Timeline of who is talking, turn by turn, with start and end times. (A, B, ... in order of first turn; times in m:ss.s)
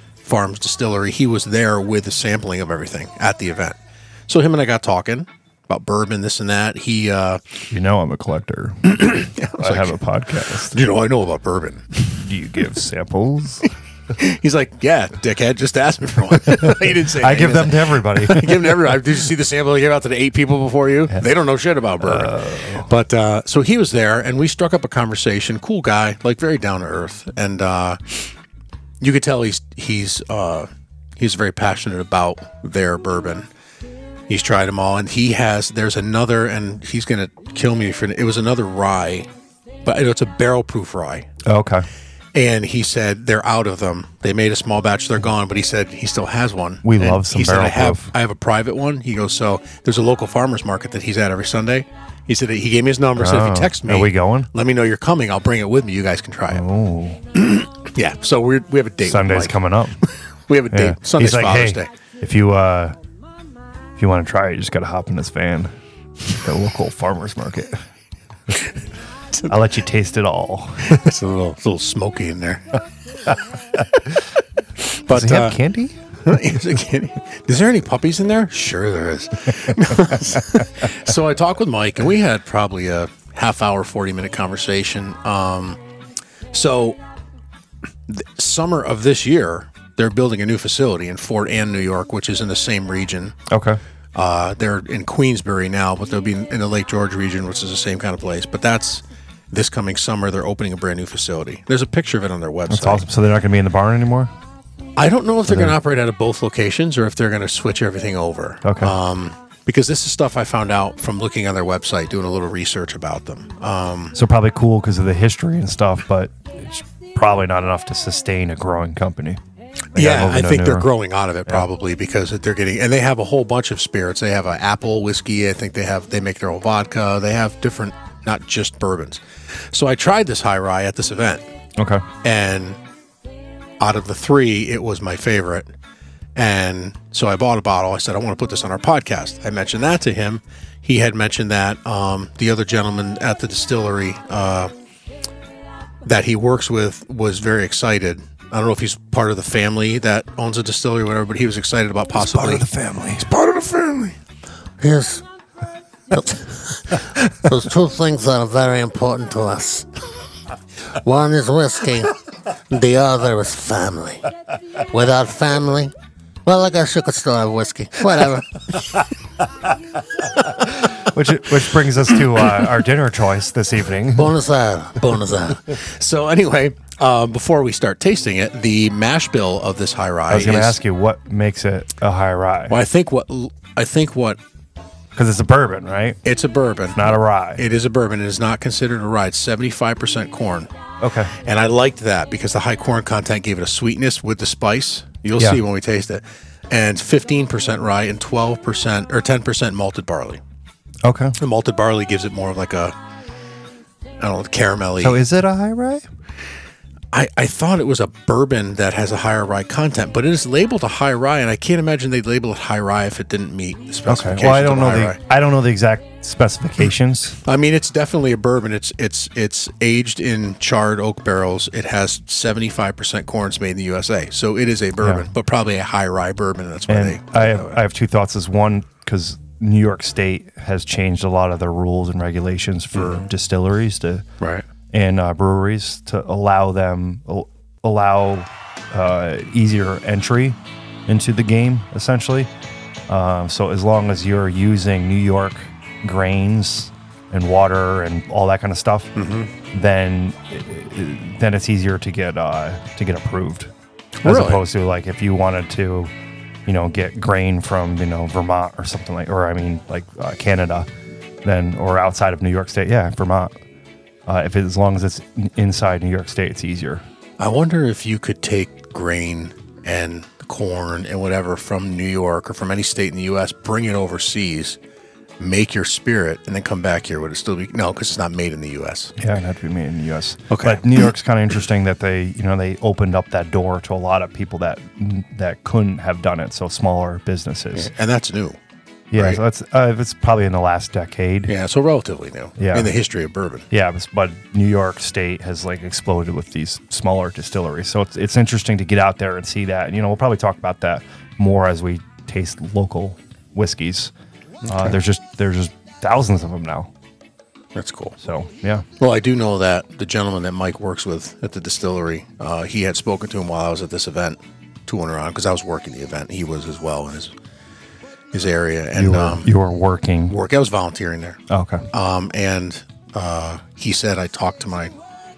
0:00.2-0:07.4 A
0:07.7-0:10.8 B
0:08.9-0:10.0 A
0:10.7-0:11.9 A
0:12.0-0:13.7 B
0:14.1-0:28.3 A
0:16.5-0:18.9 B
0:22.0-0:22.9 B
0:29.0-0:33.5 A
0:34.3-0:39.3 A
0:39.8-0:41.3 A
0:41.4-0:41.8 B
0:42.3-0:56.6 A
0:46.8-0:48.1 B
0:53.2-0:54.5 B
0:56.5-0:57.2 B
0:57.3-0:59.6 A
0:59.0-1:00.0 B
1:00.5-1:01.9 A
1:00.7-1:03.0 B
1:04.0-1:05.7 B
1:06.3-1:07.8 B
1:09.5-1:11.1 B
1:10.9-1:12.8 A
1:14.8-1:15.6 A
1:15.1-1:16.6 B
1:16.2-1:25.8 A
1:26.5-1:27.0 A
1:28.1-1:33.4 A
1:33.5-1:33.8 B
1:34.1-1:43.0 A
1:42.7-1:44.3 B
1:45.0-1:54.2 A
1:45.5-1:45.8 B
1:48.6-1:48.9 B
1:54.1-1:59.4 B
1:59.9-2:00.9 B
1:59.9-2:11.4 A
2:11.8-2:12.0 B
2:12.2-2:12.8 A
2:13.8-2:15.7 A
2:16.4-2:24.7 A
2:26.0-2:32.6 A
2:32.1-2:33.3 B
2:33.2-2:34.1 A
2:34.8-2:35.2 C
2:36.1-2:39.9 C
2:41.0-2:44.2 C
2:44.9-2:45.9 C
2:46.4-2:49.0 C
2:50.6-2:54.3 B
2:54.1-2:55.6 C
2:55.7-3:00.8 A
3:00.3-3:02.8 B
3:02.7-3:04.4 A
3:05.1-3:06.2 B
3:06.2-3:10.7 A
3:06.9-3:07.6 B
3:11.0-3:11.3 B
3:11.3-3:20.4 A
3:21.0-3:21.4 B
3:21.4-3:23.0 A
3:24.2-3:25.2 A
3:25.0-3:26.0 B
3:27.1-3:35.2 A
3:34.0-3:37.4 B
3:37.4-3:47.8 A
3:45.0-3:45.3 B
3:46.9-3:54.2 B
3:52.9-3:53.3 A
3:54.4-3:54.6 A
3:54.9-4:02.5 B
4:03.1-4:09.1 B
4:09.2-4:09.5 A
4:09.7-4:13.7 B
4:14.2-4:14.6 A
4:14.2-4:16.1 B
4:16.6-4:20.9 B
4:21.4-4:23.5 B
4:24.2-4:27.0 B
4:27.4-4:34.8 A
4:35.4-4:39.1 A
4:39.2-4:47.9 B
4:40.5-4:41.1 A
4:47.7-4:48.6 A
4:49.1-4:51.5 B
4:49.1-4:49.4 A
4:51.5-4:53.6 A
4:52.6-4:52.9 B
4:53.7-5:04.1 B
5:04.6-5:05.0 A
5:04.7-5:06.9 B
5:07.7-5:08.2 A
5:08.2-5:08.8 B
5:09.0-5:17.3 A
5:18.3-5:19.5 A
5:18.9-5:20.4 B
5:20.3-5:21.4 A
5:21.5-5:21.9 B
5:21.9-5:24.9 A